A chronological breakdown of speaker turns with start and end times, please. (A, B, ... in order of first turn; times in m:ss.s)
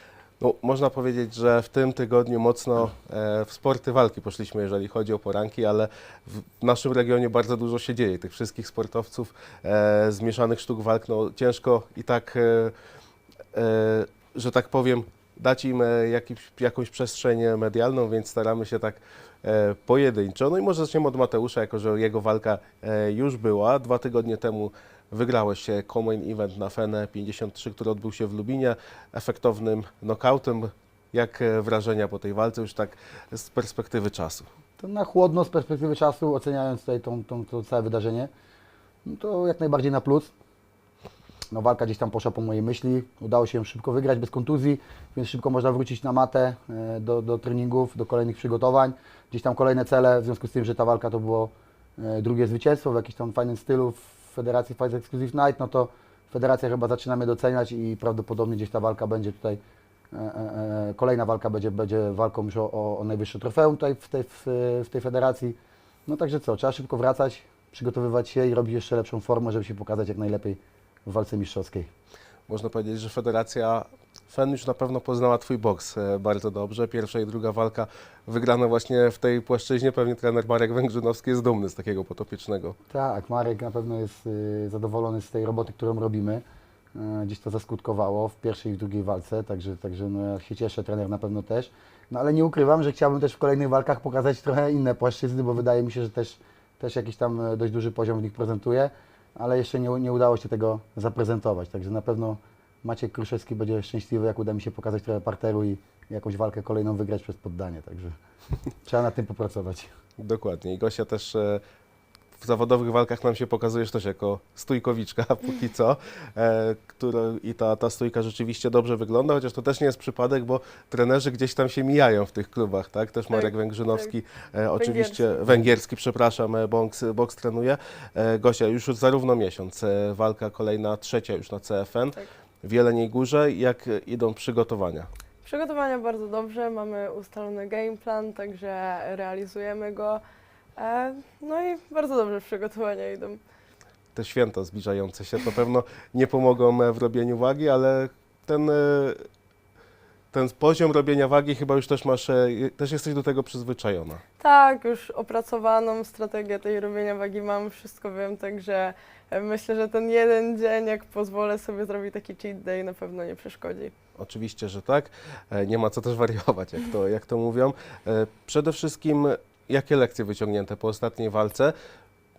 0:00.4-0:12.7 A
0:13.5-0:34.5 A
0:34.8-0:38.3 B
0:39.0-0:40.3 B
0:41.5-0:59.6 B
1:00.1-1:11.9 B
1:12.5-1:22.8 A
1:22.9-1:26.4 B
1:27.0-1:48.1 B
1:48.8-1:49.9 B
1:50.2-1:51.6 A
1:52.4-2:15.1 A
2:03.3-2:04.1 C
2:04.8-2:05.4 C
2:15.4-2:20.2 C
2:20.8-2:23.4 C
2:24.2-2:29.2 A
2:30.3-2:34.2 A
2:34.4-2:43.9 C
2:44.2-2:51.7 A